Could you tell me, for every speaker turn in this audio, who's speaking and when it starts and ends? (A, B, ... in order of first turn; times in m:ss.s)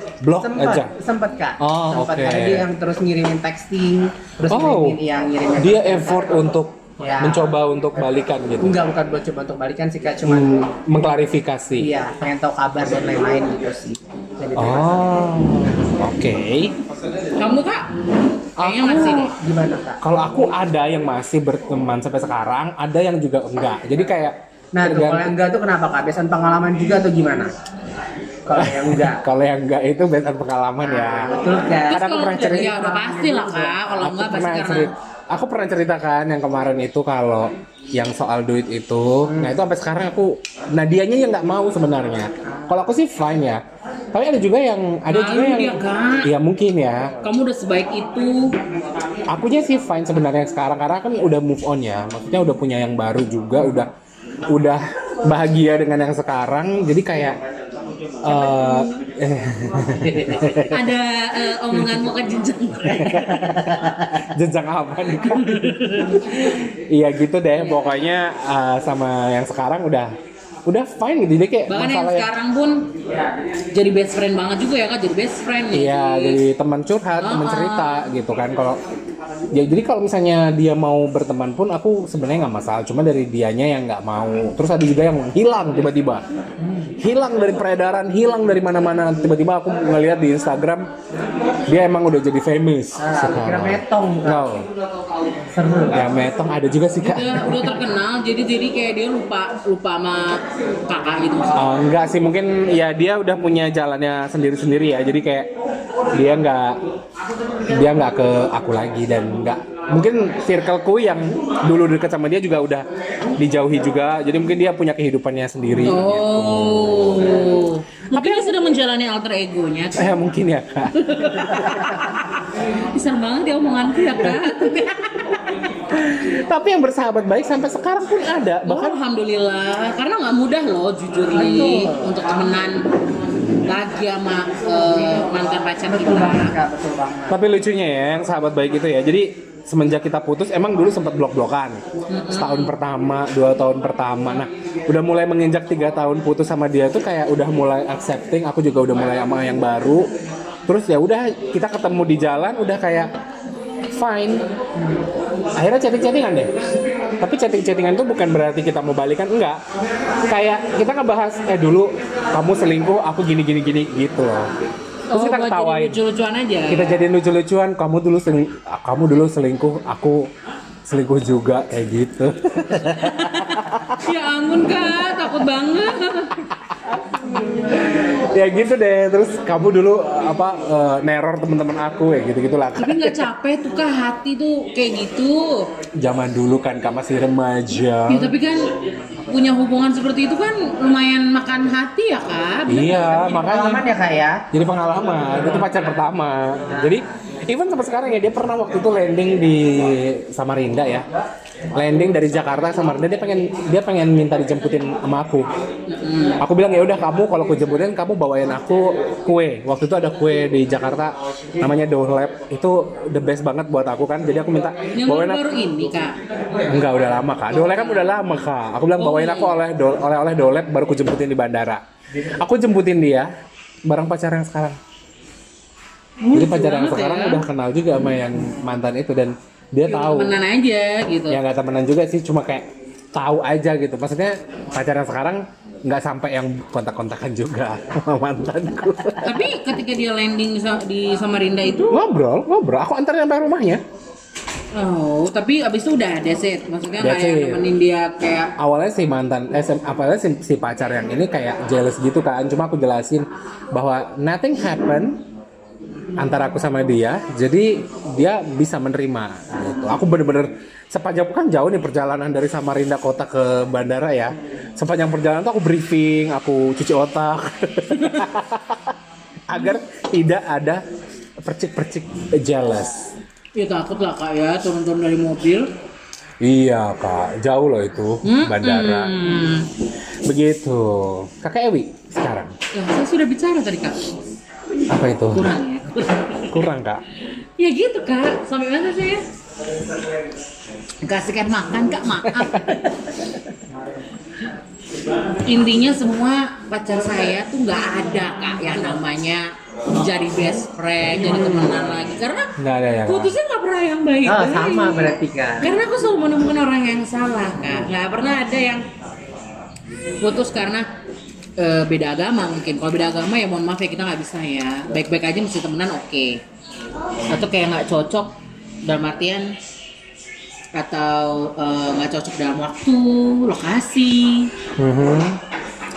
0:00.2-0:00.9 A
0:00.4-0:06.3 B
0:01.6-0:02.7 A
0:04.5-0:05.0 A
0:05.6-0:08.8 A
0:07.0-0:07.5 B
0:08.6-0:10.7 B
0:10.2-0:11.9 A
0:11.8-0:15.1 B
0:14.6-0:16.7 A
0:17.4-0:17.9 C
0:18.6-0:19.3 C
0:18.6-0:19.2 A
0:18.8-0:20.0 B
0:20.0-0:25.4 A
0:24.8-0:27.5 B
0:28.5-0:29.2 B
0:28.5-0:31.4 A
0:30.8-0:33.9 B
0:31.9-0:32.7 A
0:31.9-0:34.9 C
0:34.0-0:47.2 A
0:39.3-0:39.6 B
0:42.4-0:42.9 B
0:45.1-0:46.3 C
0:47.2-0:48.6 C
0:49.3-0:53.9 A
0:54.5-0:57.4 A
0:58.2-1:00.9 A
1:00.1-1:00.6 B
1:00.7-1:03.9 C
1:02.8-1:10.1 A
1:05.3-1:06.5 C
1:07.6-1:08.0 C
1:10.7-1:12.3 A
1:11.7-1:12.9 C
1:13.7-1:16.4 C
1:15.7-1:18.8 A
1:17.2-1:17.9 C
1:19.5-1:26.2 A
1:26.6-1:26.9 B
1:27.0-1:30.9 A
1:31.7-1:34.6 A
1:33.0-1:34.4 B
1:35.5-1:36.0 B
1:35.9-1:37.8 A
1:37.0-1:41.6 C
1:41.5-1:45.5 A
1:46.1-1:46.8 A
1:47.6-1:52.8 A
1:53.4-1:57.4 A
1:55.8-2:00.1 C
1:58.1-1:58.6 A
2:00.0-2:02.1 A
2:00.9-2:05.4 C
2:04.3-2:04.7 A
2:05.9-2:09.0 A
2:08.7-2:12.8 C
2:11.3-2:12.1 B
2:13.6-2:16.6 C
2:15.8-2:17.4 B
2:17.3-2:30.1 A
2:22.1-2:22.7 C
2:30.7-2:33.1 A
2:33.9-2:34.4 A
2:35.6-2:36.5 A
2:37.2-2:39.6 A
2:40.2-2:44.5 A
2:45.1-2:47.0 C
2:45.1-2:46.0 A
2:46.7-2:50.3 A
2:50.9-2:54.0 A
2:53.0-2:56.5 C
2:55.0-2:55.5 A
2:56.8-3:03.3 A
3:02.8-3:05.7 C
3:06.0-3:08.4 A
3:08.1-3:08.7 C
3:09.3-3:13.5 C
3:12.7-3:13.8 A
3:13.3-3:14.4 B
3:14.5-3:21.1 A
3:21.7-3:25.5 A
3:25.9-3:26.4 C
3:26.4-3:35.5 A
3:35.0-3:36.2 C
3:36.7-3:43.3 A
3:37.5-3:38.2 C
3:39.0-3:39.6 C
3:43.8-3:44.8 A
3:46.2-3:47.4 C
3:46.3-3:50.4 A
3:49.9-3:51.4 C
3:51.3-3:59.5 A
3:59.2-4:02.0 C
4:01.9-4:03.8 A
4:04.7-4:08.5 C
4:07.0-4:07.6 A
4:08.6-4:15.2 A
4:16.2-4:29.0 A
4:29.5-4:30.8 A
4:31.4-4:33.1 A
4:33.6-4:35.7 C
4:36.4-4:39.2 A
4:38.2-4:39.7 C
4:40.3-4:42.6 A
4:42.7-4:44.0 C
4:44.9-4:45.5 A
4:45.3-4:46.6 C
4:46.5-4:47.0 A
4:47.6-4:49.2 C
4:51.0-4:52.8 C
4:52.3-4:52.8 A
4:55.5-5:02.5 C
5:02.6-5:03.4 A
5:03.1-5:08.8 C
5:04.2-5:05.7 B
5:10.2-5:10.9 C
5:11.6-5:16.4 C
5:17.3-5:19.5 C
5:20.7-5:24.5 C
5:24.8-5:25.4 A